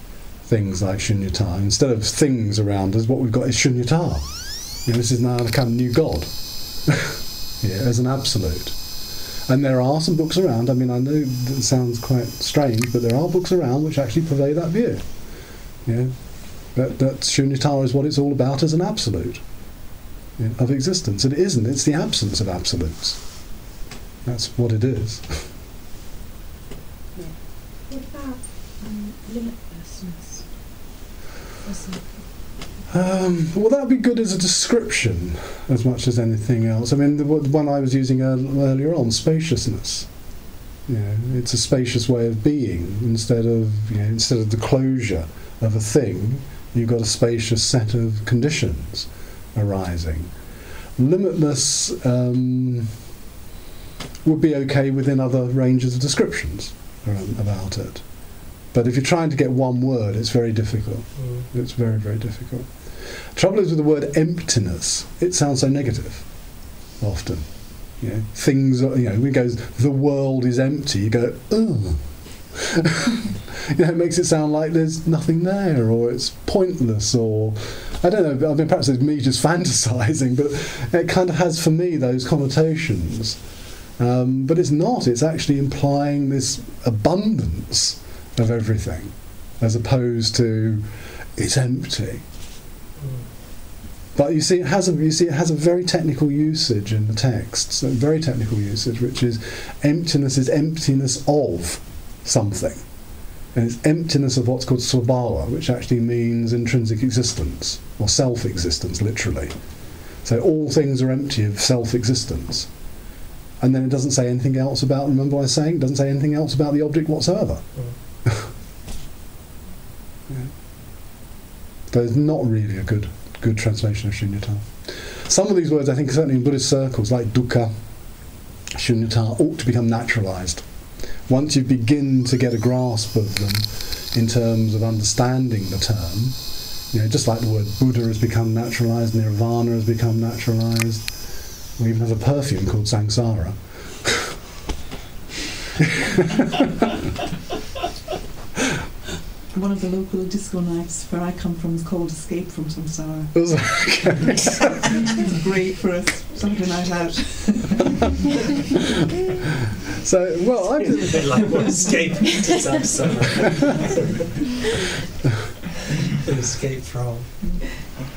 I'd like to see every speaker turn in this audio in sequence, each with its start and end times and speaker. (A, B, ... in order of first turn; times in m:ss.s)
0:00.4-0:08.8 A
0:09.5-0:15.2 A
0:15.8-0:19.4 A
0:20.4-0:23.5 A
0:24.2-0:25.5 A
0:27.9-0:30.8 B
0:31.6-0:32.6 B
0:32.9-0:40.1 A
0:40.9-0:50.3 A
0:51.0-0:53.0 A
0:54.2-0:58.1 A
0:58.7-1:23.4 A
1:01.2-1:01.5 C
1:24.0-1:32.2 A
1:33.0-1:33.3 C
1:34.2-1:49.5 A
1:50.2-1:52.7 A
1:53.6-1:58.4 A
2:01.9-2:07.7 A
2:08.7-2:10.6 A
2:11.3-2:24.3 A
2:29.5-2:33.9 D
2:33.3-2:34.9 A
2:34.7-2:38.0 D
2:40.0-2:41.6 A
2:40.6-2:44.7 C
2:46.0-2:47.8 C